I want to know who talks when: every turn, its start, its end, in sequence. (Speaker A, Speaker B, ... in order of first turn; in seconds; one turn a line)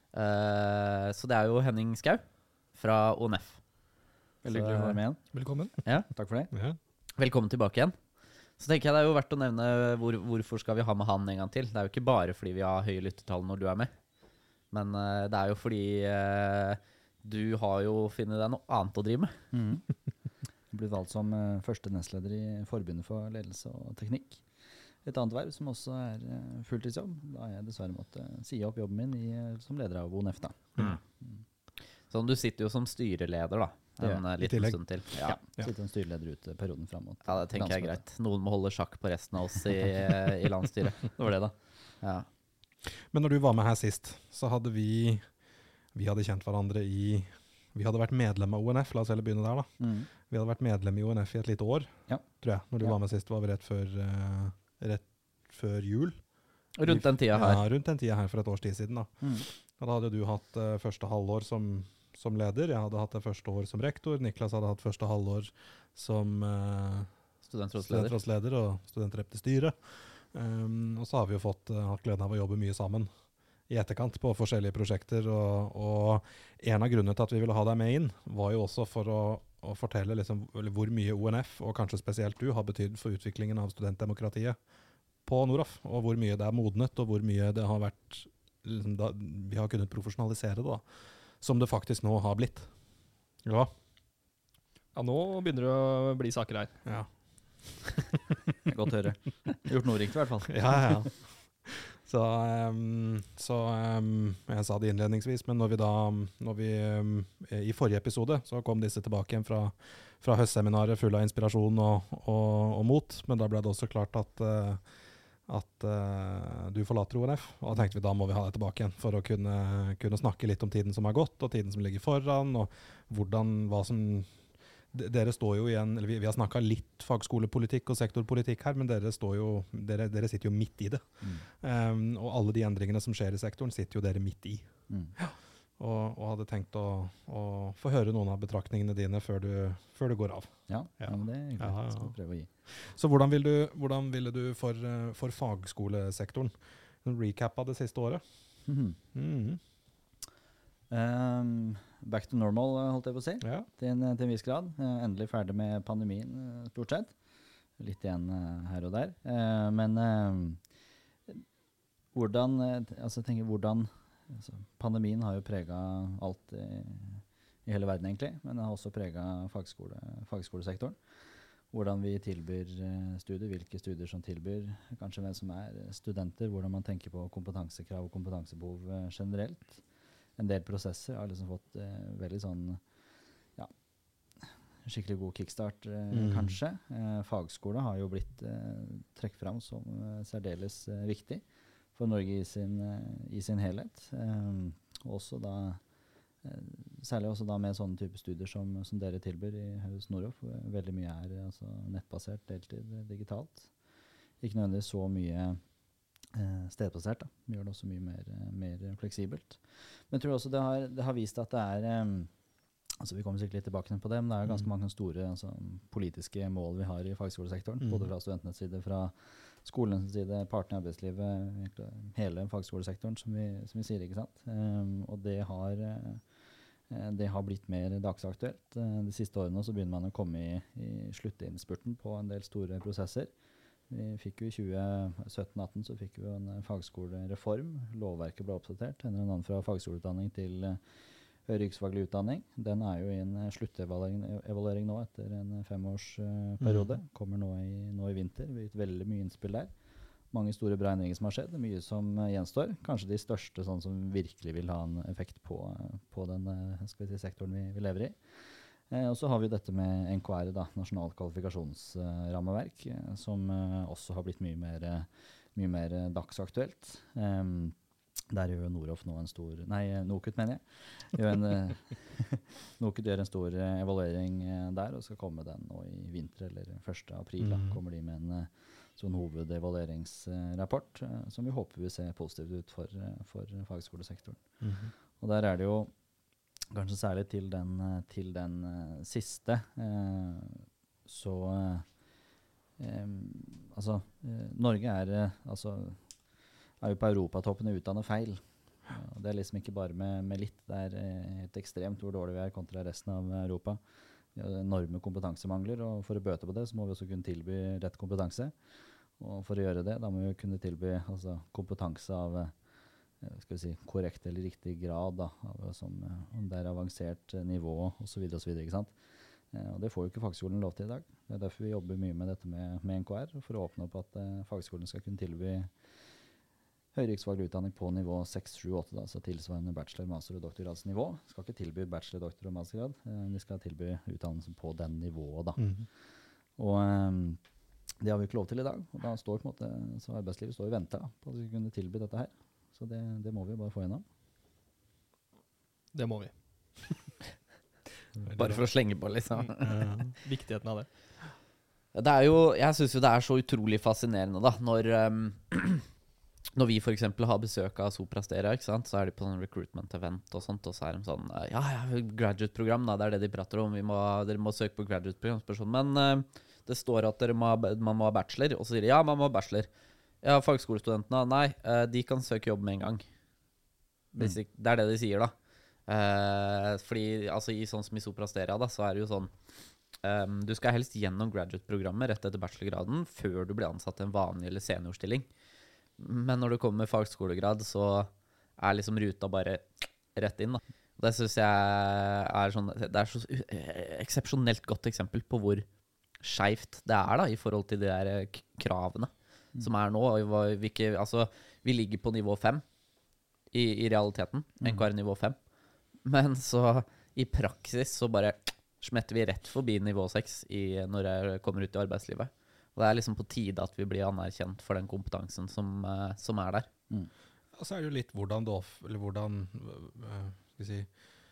Speaker A: 0.1-3.6
Speaker B: 4.4-5.3
Speaker C: 5.3-5.8
Speaker B: 6.1-6.5
Speaker C: 6.5-6.8
Speaker A: 7.2-13.9
Speaker A: 14.7-19.3
Speaker B: 19.5-19.9
Speaker B: 20.7-24.4
Speaker B: 25.0-31.4
Speaker A: 32.1-35.4
Speaker B: 34.0-34.2
Speaker C: 34.4-35.7
Speaker B: 35.2-38.0
Speaker A: 37.2-41.2
Speaker B: 41.0-41.6
Speaker A: 42.0-42.3
Speaker C: 42.9-67.2
Speaker B: 49.8-50.1
Speaker B: 52.1-53.0
Speaker A: 56.8-57.6
Speaker B: 59.2-59.5
Speaker A: 67.5-68.1
Speaker C: 67.8-84.7
Speaker C: 85.2-93.7
Speaker D: 94.9-97.2
Speaker C: 96.8-98.0
Speaker B: 98.7-101.0
Speaker C: 100.5-149.6
Speaker B: 131.2-131.5
Speaker B: 134.9-135.1
Speaker B: 140.7-142.5
Speaker B: 148.7-149.0
Speaker B: 150.9-157.2
Speaker C: 153.4-153.7
Speaker B: 157.8-160.6
Speaker B: 162.1-171.0
Speaker B: 171.7-179.8
Speaker B: 180.4-182.8
Speaker B: 184.4-191.4
Speaker C: 186.1-186.6
Speaker B: 191.9-195.8
Speaker B: 196.4-203.7
Speaker B: 204.4-205.6
Speaker B: 206.3-212.3
Speaker B: 213.0-226.2
Speaker C: 217.8-218.1
Speaker B: 226.9-233.3
Speaker B: 233.9-240.8
Speaker B: 241.4-249.7
Speaker C: 246.6-246.9
Speaker B: 250.3-258.2
Speaker B: 258.9-267.8
Speaker B: 268.3-284.4
Speaker C: 277.4-277.8
Speaker C: 284.6-284.9
Speaker B: 285.2-285.9
Speaker B: 286.7-291.9
Speaker B: 292.8-296.0
Speaker B: 296.8-303.8
Speaker B: 304.4-308.5
Speaker B: 309.2-312.5
Speaker B: 313.2-318.9
Speaker B: 319.5-325.7
Speaker B: 326.9-335.7
Speaker C: 335.6-335.9
Speaker B: 336.6-337.4
Speaker B: 338.0-344.0
Speaker D: 345.9-347.2
Speaker C: 348.2-348.6
Speaker A: 348.4-349.9
Speaker D: 349.3-350.9
Speaker C: 349.6-350.1
Speaker A: 351.9-355.9
Speaker A: 356.5-369.7
Speaker A: 370.2-373.0
Speaker A: 374.1-375.3
Speaker A: 375.9-379.3
Speaker A: 380.0-385.3
Speaker A: 386.0-395.7
Speaker A: 396.2-402.6
Speaker A: 403.5-405.4
Speaker A: 406.0-416.7
Speaker C: 417.5-420.9